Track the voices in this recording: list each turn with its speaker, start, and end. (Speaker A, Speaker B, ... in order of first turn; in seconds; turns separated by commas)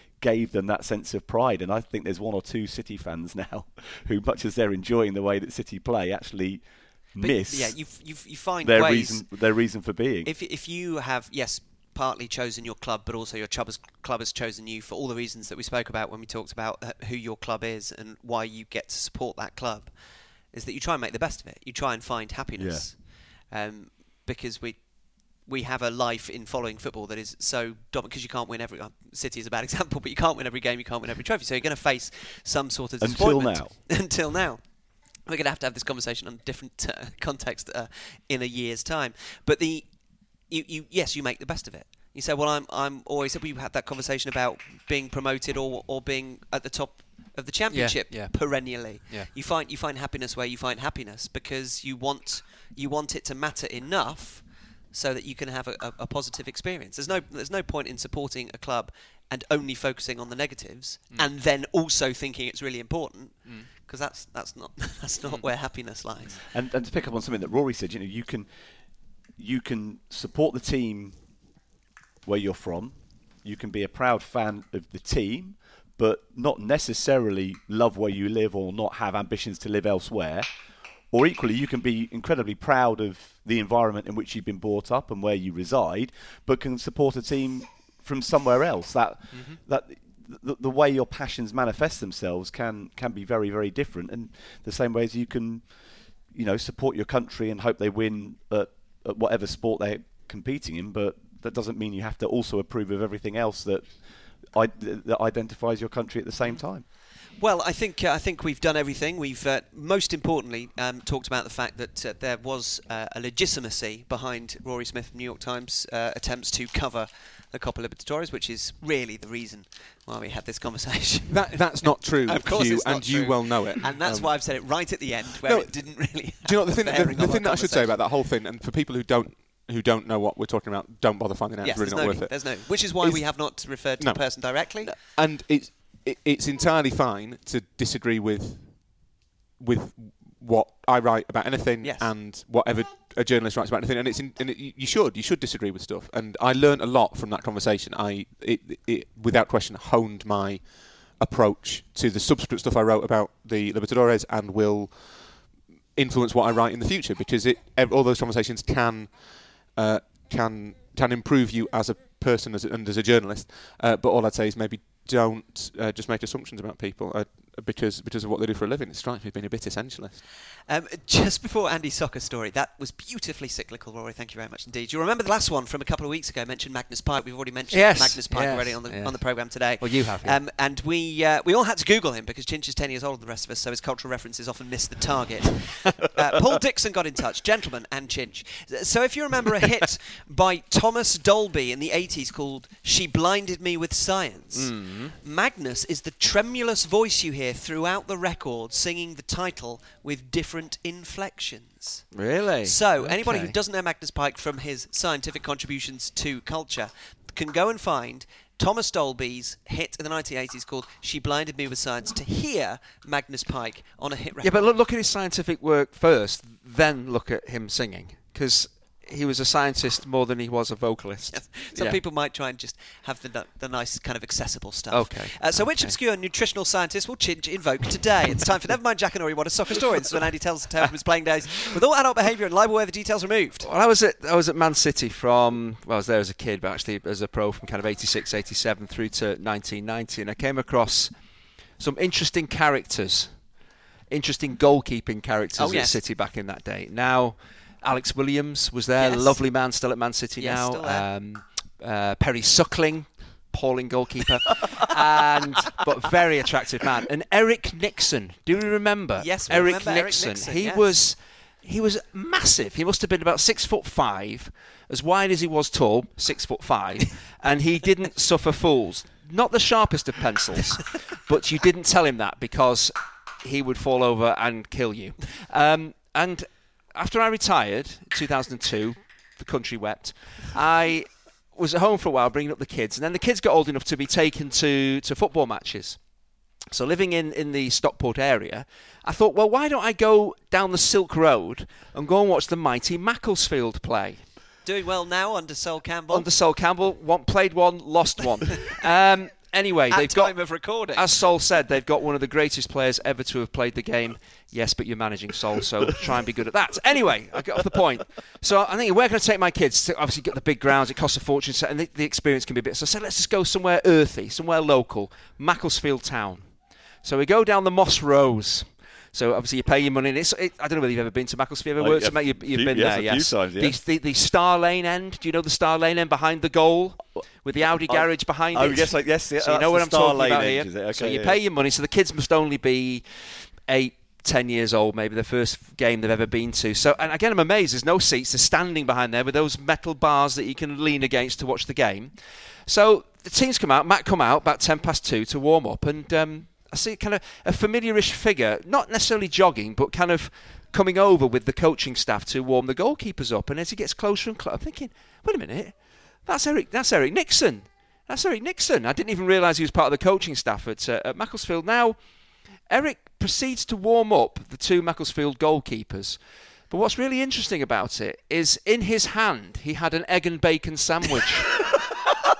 Speaker A: 0.2-10.3, Speaker B: 7.2-9.3, Speaker B: 10.2-66.4, Speaker A: 22.6-22.9, Speaker A: 33.0-33.7, Speaker C: 47.7-49.3, Speaker A: 66.4-71.2, Speaker A: 72.2-80.5, Speaker A: 81.1-106.8, Speaker C: 89.3-89.6, Speaker B: 107.3-128.0, Speaker D: 121.3-170.2, Speaker B: 131.6-134.9, Speaker B: 141.8-142.1, Speaker B: 170.7-202.1, Speaker C: 177.7-180.4, Speaker C: 194.5-195.1, Speaker C: 202.1-203.6, Speaker B: 202.6-214.7, Speaker C: 214.4-222.0, Speaker B: 221.3-233.7, Speaker C: 224.9-226.0, Speaker C: 233.6-241.2, Speaker C: 241.8-243.5, Speaker C: 244.1-286.0, Speaker B: 245.6-246.0, Speaker B: 249.0-249.4, Speaker B: 250.4-251.1, Speaker B: 259.2-260.9, Speaker C: 286.7-294.2, Speaker B: 294.6-296.3, Speaker C: 296.1-371.7, Speaker B: 299.9-301.0, Speaker A: 321.8-323.8, Speaker A: 327.6-331.4